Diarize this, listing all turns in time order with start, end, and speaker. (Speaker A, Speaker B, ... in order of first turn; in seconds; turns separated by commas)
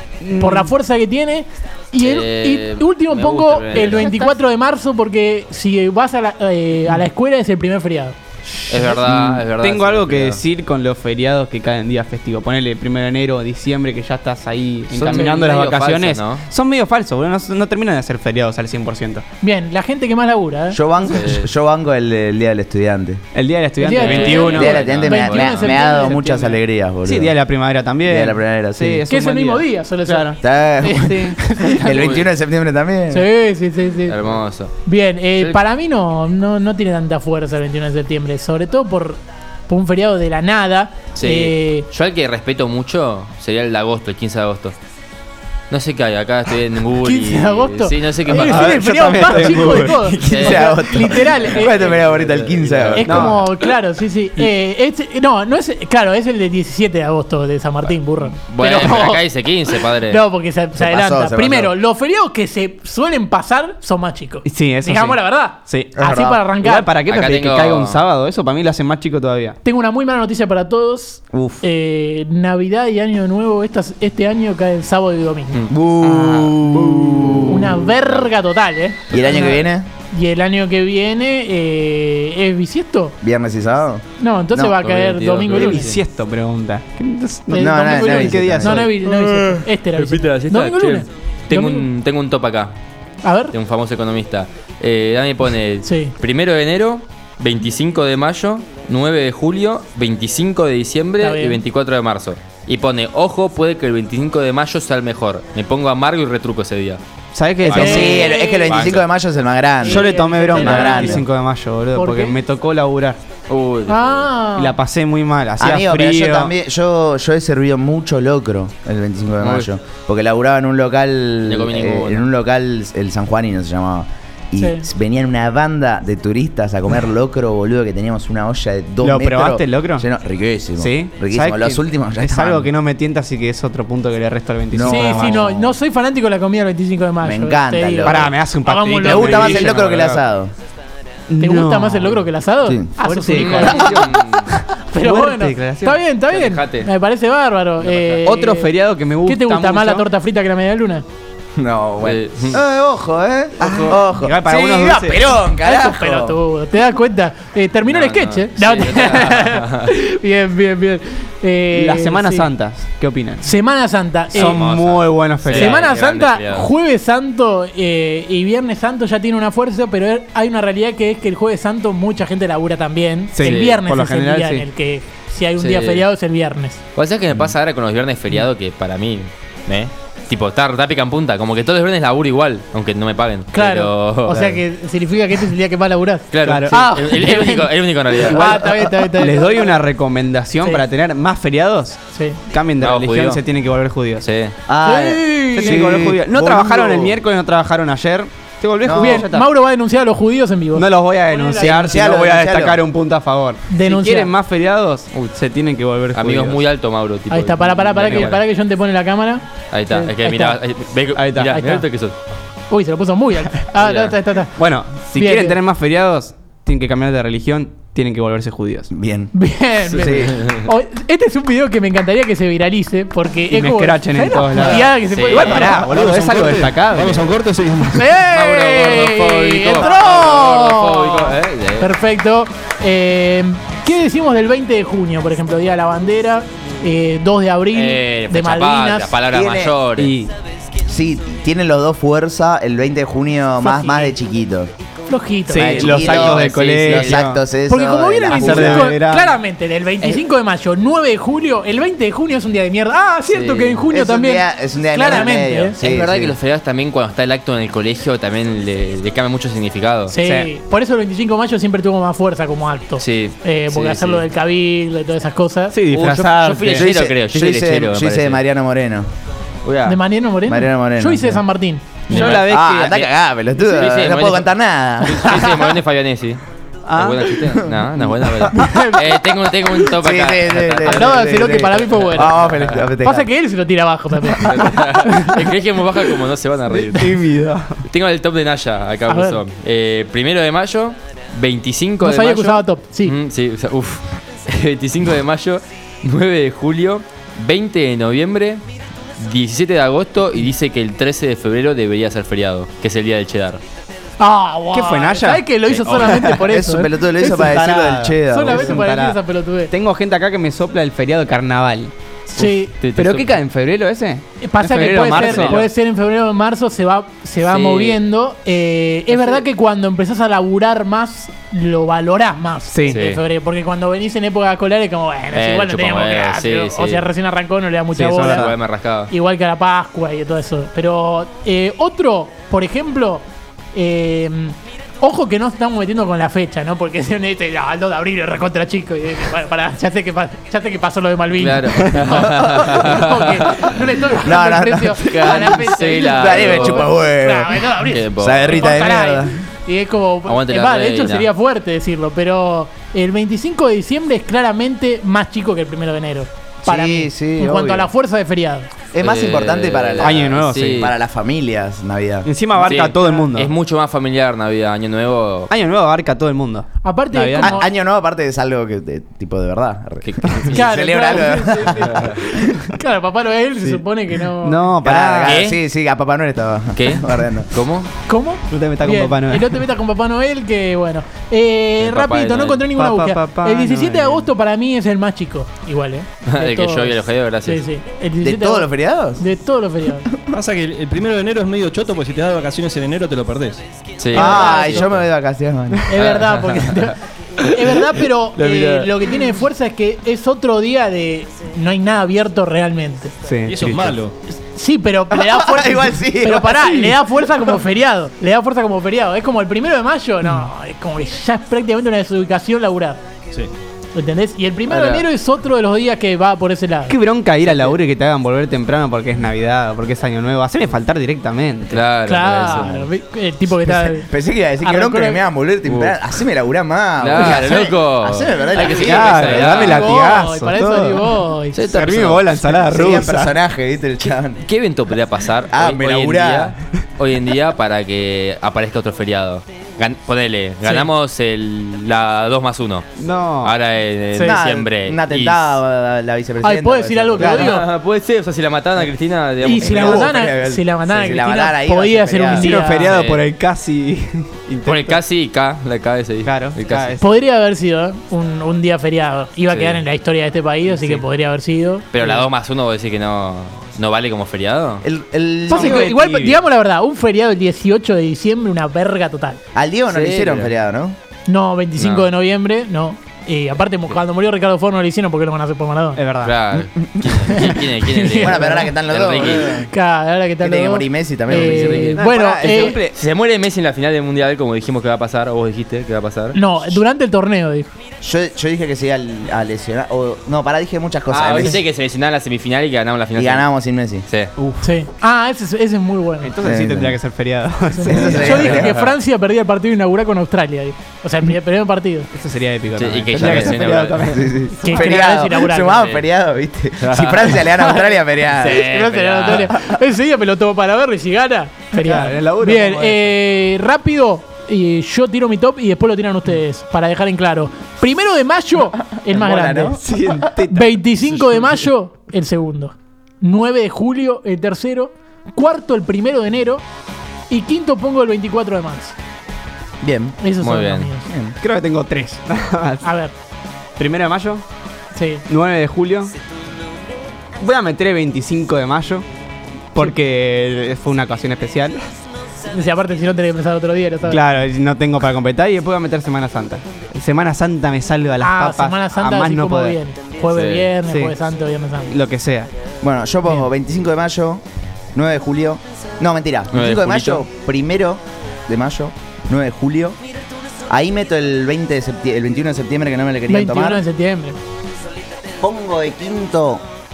Speaker A: 0.2-0.7, Speaker B: 0.4-8.2, Speaker C: 2.0-4.1, Speaker A: 3.8-4.3, Speaker A: 8.6-19.2, Speaker C: 8.7-10.4, Speaker C: 14.9-16.4, Speaker B: 19.4-20.8, Speaker D: 20.7-23.2, Speaker C: 21.0-21.5, Speaker A: 23.3-24.9, Speaker B: 23.8-26.6, Speaker C: 24.0-26.0, Speaker D: 24.4-27.3, Speaker A: 27.0-31.9, Speaker D: 28.0-29.0, Speaker B: 29.1-31.9, Speaker D: 30.4-33.3, Speaker C: 31.8-32.3, Speaker B: 33.1-34.2, Speaker C: 34.1-34.7, Speaker B: 34.8-41.9, Speaker C: 41.1-44.7, Speaker C: 45.7-49.6, Speaker B: 47.0-51.8, Speaker A: 48.3-50.6, Speaker D: 49.9-53.3, Speaker C: 50.2-53.5, Speaker B: 52.9-66.9, Speaker A: 53.0-53.4, Speaker C: 58.5-60.2, Speaker D: 60.8-61.7, Speaker A: 64.5-65.9, Speaker D: 66.0-66.5, Speaker A: 66.6-69.6, Speaker C: 67.1-68.0, Speaker B: 69.6-75.6, Speaker D: 71.3-71.6, Speaker C: 75.5-76.6, Speaker D: 75.7-78.1, Speaker A: 76.8-77.3, Speaker B: 77.5-83.2, Speaker D: 79.1-79.9, Speaker D: 83.2-84.8, Speaker B: 84.2-85.9, Speaker C: 84.7-86.0, Speaker A: 85.5-89.0, Speaker B: 87.5-91.8, Speaker D: 87.5-88.9, Speaker C: 89.0-92.7, Speaker B: 93.2-93.5, Speaker C: 93.5-107.0, Speaker B: 95.8-96.1, Speaker B: 101.2-101.6, Speaker A: 107.3-108.2, Speaker C: 107.6-109.1, Speaker B: 107.7-108.9, Speaker D: 107.7-111.2, Speaker B: 109.8-111.3, Speaker A: 109.8-113.2, Speaker B: 111.9-112.4, Speaker C: 113.5-114.2, Speaker B: 113.9-114.8, Speaker A: 114.6-116.5, Speaker D: 115.6-132.7, Speaker C: 119.4-119.7, Speaker C: 121.5-122.3, Speaker B: 124.6-124.9, Speaker A: 129.0-130.1, Speaker A: 130.8-135.4, Speaker D: 134.7-135.7, Speaker B: 134.9-139.7, Speaker D: 137.2-138.3, Speaker A: 138.0-140.2, Speaker D: 139.0-140.5, Speaker A: 141.3-142.3, Speaker B: 141.4-144.2, Speaker D: 142.6-142.9, Speaker A: 143.0-146.0, Speaker C: 143.3-144.4, Speaker D: 143.5-144.0, Speaker B: 144.8-148.7, Speaker C: 146.3-146.9, Speaker C: 147.8-148.2, Speaker A: 148.2-150.1, Speaker B: 149.2-151.0, Speaker D: 151.5-156.4, Speaker C: 152.0-152.6, Speaker A: 153.6-155.3, Speaker B: 155.5-162.5, Speaker C: 157.8-159.9, Speaker A: 161.7-163.4, Speaker B: 163.4-164.6, Speaker C: 164.3-166.7, Speaker A: 164.3-165.8, Speaker B: 165.5-176.8, Speaker A: 173.3-174.7, Speaker C: 173.4-173.8, Speaker C: 175.6-176.1, Speaker C: 176.9-184.6, Speaker B: 183.5-189.5, Speaker C: 186.3-188.6, Speaker A: 186.4-186.8, Speaker A: 188.2-194.3, Speaker B: 192.1-192.4, Speaker C: 192.8-193.4, Speaker C: 194.2-194.5, Speaker D: 194.7-197.2, Speaker B: 194.8-195.9, Speaker A: 195.5-199.5, Speaker D: 198.8-199.3, Speaker B: 198.9-201.9, Speaker A: 200.7-206.6, Speaker D: 201.6-202.8, Speaker B: 203.7-204.3, Speaker C: 206.1-208.4, Speaker B: 207.3-209.4, Speaker A: 208.0-208.4, Speaker C: 209.7-212.1, Speaker A: 209.9-210.2, Speaker B: 210.2-210.5, Speaker A: 211.1-211.8, Speaker B: 212.7-214.6, Speaker C: 213.8-214.1, Speaker A: 214.6-218.9, Speaker B: 215.1-215.6, Speaker D: 218.9-219.3, Speaker B: 219.3-225.9, Speaker C: 219.9-220.7, Speaker D: 220.0-220.3, Speaker A: 223.5-227.2, Speaker C: 225.1-225.6, Speaker E: 225.4-228.2, Speaker B: 227.9-239.2, Speaker C: 228.2-231.9, Speaker C: 237.7-240.2, Speaker D: 239.3-239.8, Speaker A: 240.0-240.3, Speaker D: 240.8-244.7, Speaker B: 243.6-244.1, Speaker B: 245.1-245.9, Speaker A: 245.5-247.4, Speaker D: 245.5-248.9, Speaker C: 245.7-247.2, Speaker B: 247.7-255.8, Speaker A: 248.3-249.4, Speaker C: 253.3-253.9, Speaker D: 253.9-256.4, Speaker C: 255.1-260.1, Speaker B: 260.1-265.8, Speaker A: 260.2-260.5, Speaker C: 263.0-264.2, Speaker A: 265.7-266.9, Speaker C: 265.9-268.4, Speaker D: 266.7-269.1, Speaker C: 269.6-270.0, Speaker B: 269.8-272.2, Speaker D: 270.4-271.4, Speaker A: 272.1-272.9, Speaker C: 272.1-276.4, Speaker D: 272.1-275.7, Speaker A: 276.8-277.4, Speaker C: 276.9-282.9, Speaker D: 277.4-278.5, Speaker B: 278.5-279.0, Speaker D: 279.9-283.3, Speaker B: 280.9-282.4, Speaker B: 283.0-284.8, Speaker C: 284.3-287.2, Speaker A: 286.9-287.8, Speaker C: 287.9-298.6, Speaker B: 289.1-289.4, Speaker B: 292.0-293.1, Speaker C: 299.2-303.6, Speaker B: 304.2-306.9, Speaker A: 304.7-305.4, Speaker C: 305.6-306.2, Speaker A: 306.0-306.4, Speaker D: 306.5-308.8, Speaker A: 307.2-311.9, Speaker B: 308.3-309.7, Speaker B: 312.3-312.7, Speaker C: 312.4-313.3, Speaker A: 312.9-315.6, Speaker B: 314.4-328.5, Speaker C: 314.7-315.6, Speaker C: 317.4-318.0, Speaker A: 319.1-319.4, Speaker A: 322.7-323.0, Speaker C: 322.9-323.2, Speaker C: 325.3-327.1, Speaker A: 327.9-328.5, Speaker C: 328.2-329.1, Speaker B: 329.1-358.7, Speaker C: 341.4-343.9, Speaker D: 344.2-349.3, Speaker C: 345.0-346.9, Speaker C: 347.8-348.6, Speaker C: 350.2-351.3, Speaker D: 356.6-357.9, Speaker D: 358.9-362.3, Speaker C: 358.9-360.9, Speaker A: 360.0-360.9, Speaker A: 362.2-363.5, Speaker C: 362.6-365.5, Speaker A: 365.5-367.6, Speaker B: 366.8-367.6, Speaker D: 367.4-372.7, Speaker C: 370.0-370.9, Speaker B: 370.5-374.7, Speaker C: 371.9-372.2, Speaker A: 374.4-375.4, Speaker D: 374.8-377.5, Speaker C: 375.2-375.6, Speaker C: 376.7-377.9, Speaker B: 378.1-390.1, Speaker A: 378.5-379.6, Speaker C: 381.8-382.6, Speaker A: 382.7-384.3, Speaker C: 386.3-387.6, Speaker D: 388.2-389.2, Speaker E: 390.3-393.6, Speaker C: 394.0-395.0, Speaker B: 394.1-394.9, Speaker D: 394.1-395.9, Speaker B: 395.9-403.1, Speaker C: 395.9-396.9, Speaker C: 397.4-397.8, Speaker C: 398.4-398.8, Speaker A: 403.2-403.9, Speaker E: 403.4-404.1, Speaker B: 404.3-413.0, Speaker D: 405.1-406.9, Speaker A: 410.2-410.5, Speaker B: 413.9-417.0, Speaker C: 414.7-415.1, Speaker A: 416.9-421.8, Speaker C: 421.7-422.9, Speaker B: 422.1-425.2, Speaker A: 423.6-423.9, Speaker D: 424.1-429.6, Speaker C: 425.6-426.0, Speaker C: 427.0-430.0, Speaker B: 427.2-427.6, Speaker A: 428.8-431.1, Speaker B: 429.5-431.6, Speaker C: 431.5-432.3, Speaker A: 431.7-433.4, Speaker D: 432.6-434.4, Speaker C: 434.4-442.9, Speaker D: 435.5-436.5, Speaker B: 440.6-440.9, Speaker A: 443.0-443.5, Speaker C: 443.4-445.6, Speaker B: 444.1-444.4, Speaker D: 444.2-447.4, Speaker B: 446.4-447.6, Speaker A: 447.2-447.5, Speaker C: 447.2-450.2, Speaker B: 449.4-452.9, Speaker D: 449.6-452.6, Speaker A: 452.3-455.0, Speaker C: 452.8-453.2, Speaker C: 454.6-457.0, Speaker A: 456.2-457.1, Speaker B: 457.0-461.9, Speaker C: 459.5-459.8, Speaker C: 460.7-461.0, Speaker C: 461.9-464.8, Speaker D: 464.8-465.9, Speaker A: 465.5-466.4, Speaker B: 465.5-469.4, Speaker D: 469.5-470.9, Speaker C: 469.9-470.5, Speaker B: 471.3-476.0, Speaker C: 471.8-472.1, Speaker A: 475.9-476.4, Speaker C: 476.2-479.5, Speaker B: 477.2-478.7, Speaker D: 478.2-479.7, Speaker B: 479.4-482.8, Speaker D: 480.4-482.0, Speaker C: 481.3-482.0, Speaker A: 481.9-483.0, Speaker C: 482.9-486.4, Speaker B: 486.3-487.7, Speaker D: 488.0-491.6, Speaker C: 491.1-493.5, Speaker D: 493.1-494.0, Speaker A: 494.4-494.7, Speaker B: 494.6-496.3, Speaker A: 496.2-498.7, Speaker D: 496.4-497.0, Speaker B: 497.7-502.1, Speaker D: 497.8-498.8, Speaker C: 498.2-498.8, Speaker A: 502.1-505.1, Speaker C: 502.8-504.3, Speaker D: 503.2-503.5, Speaker D: 504.1-508.7, Speaker B: 504.6-505.9, Speaker C: 505.6-506.1, Speaker C: 506.8-507.5, Speaker B: 507.5-519.8, Speaker C: 508.3-509.5, Speaker A: 511.7-513.1, Speaker D: 519.0-520.3, Speaker A: 519.7-520.8, Speaker B: 520.5-526.6, Speaker C: 521.2-521.5, Speaker B: 527.3-528.9, Speaker D: 529.8-530.2, Speaker B: 530.2-531.1, Speaker C: 530.4-530.9, Speaker D: 531.0-531.4, Speaker A: 531.4-532.8, Speaker B: 532.8-533.1, Speaker A: 533.8-534.4, Speaker B: 534.9-535.2, Speaker A: 535.3-536.1, Speaker A: 537.4-539.0, Speaker A: 539.7-541.8, Speaker B: 542.5-544.2, Speaker A: 544.0-549.8, Speaker B: 548.2-552.0, Speaker C: 550.3-550.7, Speaker A: 550.9-551.1, Speaker A: 551.9-552.5, Speaker D: 552.8-554.4, Speaker D: 554.9-560.0, Speaker C: 556.5-557.2, Speaker D: 560.7-563.8, Speaker B: 563.3-564.4, Speaker D: 565.4-566.6